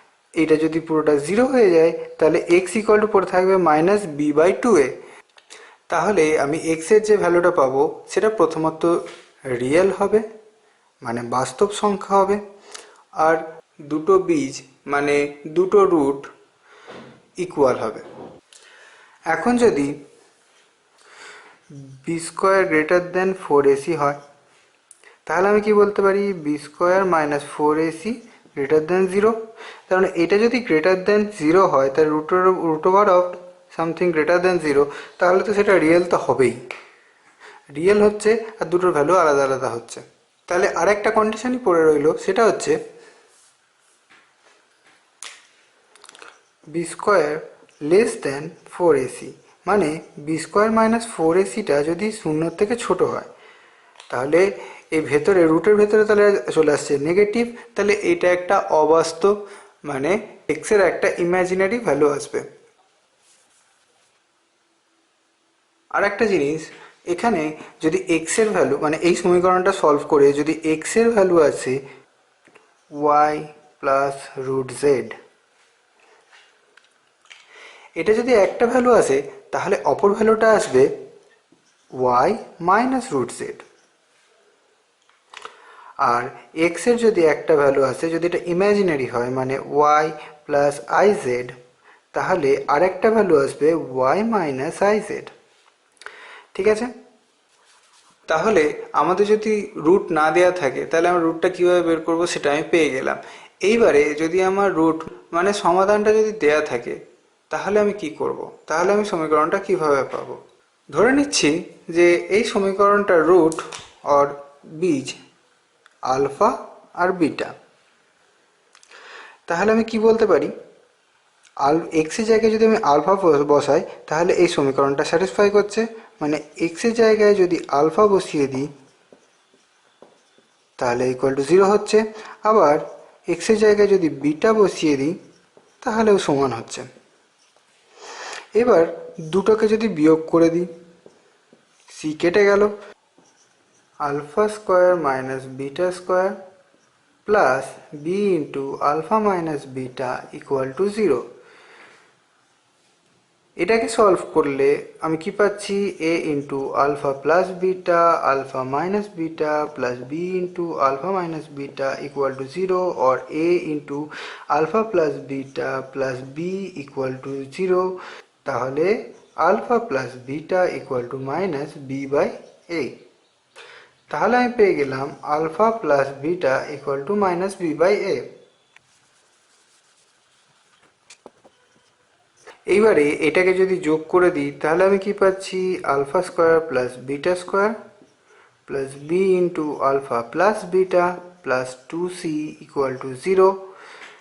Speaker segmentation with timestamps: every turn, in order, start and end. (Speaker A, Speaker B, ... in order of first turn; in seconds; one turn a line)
Speaker A: 0.4-4.9
Speaker A: 5.9-8.9
Speaker A: 9.5-10.2
Speaker A: 11.0-12.4
Speaker A: 13.2-16.3
Speaker A: 17.4-18.0
Speaker A: 19.3-19.9
Speaker A: 22.0-24.2
Speaker A: 25.3-29.3
Speaker A: 29.9-36.6
Speaker A: 37.8-42.8
Speaker A: 46.7-53.3
Speaker A: 54.1-59.3
Speaker A: 59.9-62.4
Speaker A: 66.0-71.8
Speaker A: 72.9-75.2
Speaker A: 78.0-80.9
Speaker A: 82.0-83.6
Speaker A: 86.0-91.5
Speaker A: 92.1-95.3
Speaker A: 96.5-96.9
Speaker A: 98.3-107.0
Speaker A: 107.5-110.4
Speaker A: 110.9-115.2
Speaker A: 116.1-117.5
Speaker A: 119.5-120.5
Speaker A: 121.6-128.7
Speaker A: 130.8-135.1
Speaker A: 135.8-136.9
Speaker A: 138.6-140.7
Speaker A: 141.9-142.7
Speaker A: 144.0-146.4
Speaker A: 147.2-151.2
Speaker A: 153.6-167.9
Speaker A: 168.4-172.9
Speaker A: 174.1-178.2
Speaker A: 182.7-187.7
Speaker A: 188.7-193.5